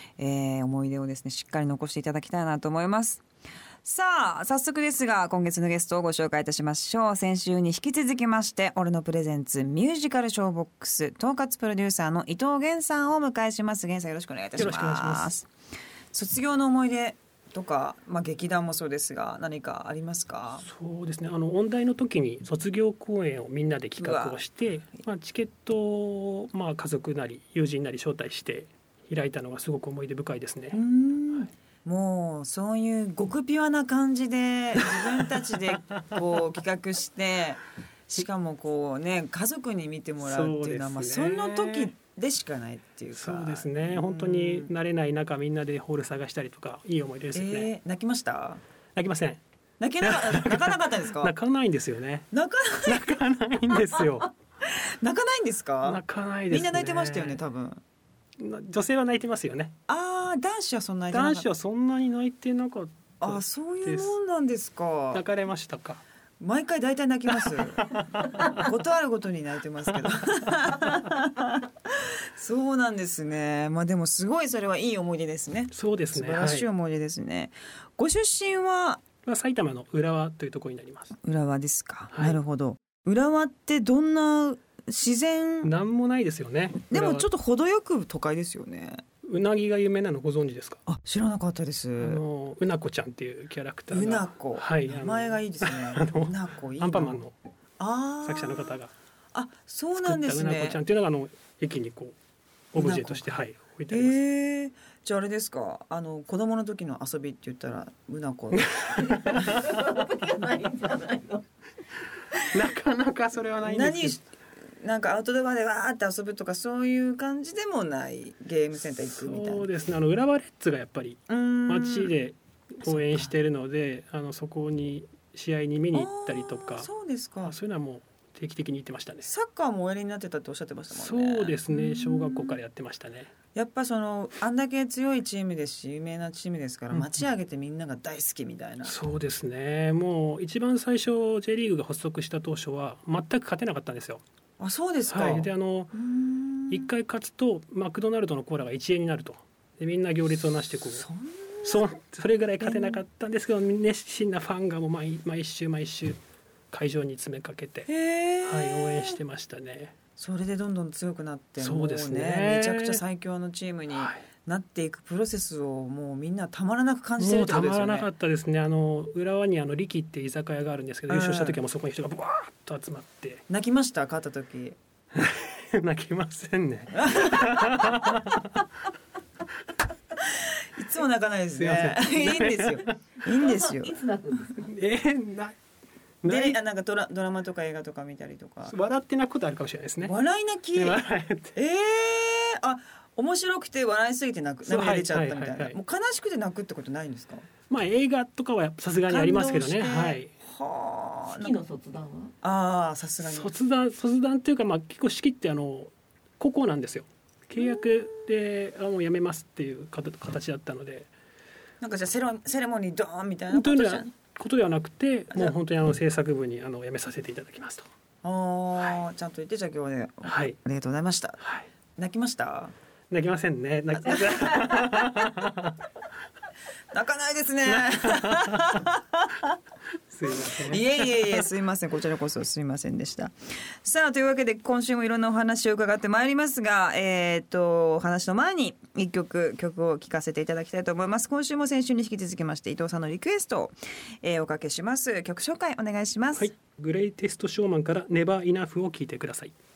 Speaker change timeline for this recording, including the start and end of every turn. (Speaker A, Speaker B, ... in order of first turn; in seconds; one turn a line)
Speaker A: 0.2-3.2
Speaker A: 3.8-15.5
Speaker B: 14.6-15.3
Speaker A: 16.1-20.6
Speaker B: 20.6-30.8
Speaker A: 24.0-24.4
Speaker A: 30.7-44.7
Speaker B: 40.2-41.9
Speaker B: 43.1-47.7
Speaker A: 47.3-48.6
Speaker B: 49.0-49.4
Speaker A: 49.8-51.3
Speaker B: 50.0-52.3
Speaker A: 52.3-53.0
Speaker B: 52.8-54.3
Speaker A: 54.6-57.8
Speaker B: 55.8-57.4
Speaker B: 58.4-59.7
Speaker A: 59.9-61.5
Speaker B: 61.1-64.2
Speaker A: 63.2-65.2
Speaker B: 65.1-66.0
Speaker A: 66.4-79.0
Speaker B: 67.4-68.6
Speaker B: 75.7-76.7
Speaker B: 79.2-81.1
Speaker A: 81.2-85.7
Speaker B: 82.1-82.4
Speaker B: 85.6-87.3
Speaker A: 86.9-89.0
Speaker B: 89.2-90.8
Speaker A: 90.9-92.2
Speaker B: 92.0-97.3
Speaker A: 93.9-97.2
Speaker A: 97.8-98.8
Speaker B: 98.2-98.9
Speaker A: 99.3-100.8
Speaker B: 100.0-102.2
Speaker B: 102.7-104.2
Speaker A: 102.8-108.8
Speaker B: 108.5-109.7
Speaker C: 109.0-111.5
Speaker B: 112.4-114.2
Speaker A: 113.6-114.2
Speaker A: 114.8-119.6
Speaker B: 119.1-126.9
Speaker A: 121.3-122.1
Speaker A: 122.8-123.3
Speaker A: 125.9-127.5
Speaker B: 127.4-129.3
Speaker A: 129.2-132.6
Speaker B: 130.9-133.3
Speaker A: 133.5-138.9
Speaker B: 136.9-137.2
Speaker B: 138.8-144.2
Speaker A: 144.6-146.9
Speaker B: 145.1-145.9
Speaker B: 146.7-151.0
Speaker A: 150.9-151.8
Speaker B: 151.6-156.2
Speaker A: 152.6-153.0
Speaker B: 156.7-157.9
Speaker A: 157.9-159.2
Speaker B: 158.4-159.9
Speaker A: 160.2-168.1
Speaker B: 161.6-163.0
Speaker B: 163.9-164.2
Speaker B: 167.2-173.4
Speaker A: 171.1-171.6
Speaker A: 173.5-174.8
Speaker B: 175.1-178.6
Speaker A: 177.0-178.1
Speaker A: 180.7-184.0
Speaker B: 181.6-182.9
Speaker C: 183.2-184.7
Speaker B: 184.6-185.6
Speaker B: 186.2-186.6
Speaker A: 186.2-188.7
Speaker B: 188.7-190.1
Speaker A: 190.0-191.0
Speaker B: 190.7-191.5
Speaker A: 191.5-197.5
Speaker B: 194.7-195.8
Speaker B: 197.7-200.3
Speaker A: 199.1-201.5
Speaker C: 201.3-202.3
Speaker A: 202.4-203.5
Speaker B: 203.2-211.1
Speaker A: 207.6-208.2
Speaker A: 211.8-214.1
Speaker B: 213.5-217.8
Speaker A: 218.2-221.4
Speaker B: 220.2-220.6
Speaker B: 221.4-221.7
Speaker A: 222.0-222.7
Speaker B: 223.1-225.8
Speaker A: 226.9-229.6
Speaker B: 227.7-228.9
Speaker B: 230.1-231.4
Speaker A: 230.3-246.5
Speaker B: 246.4-249.5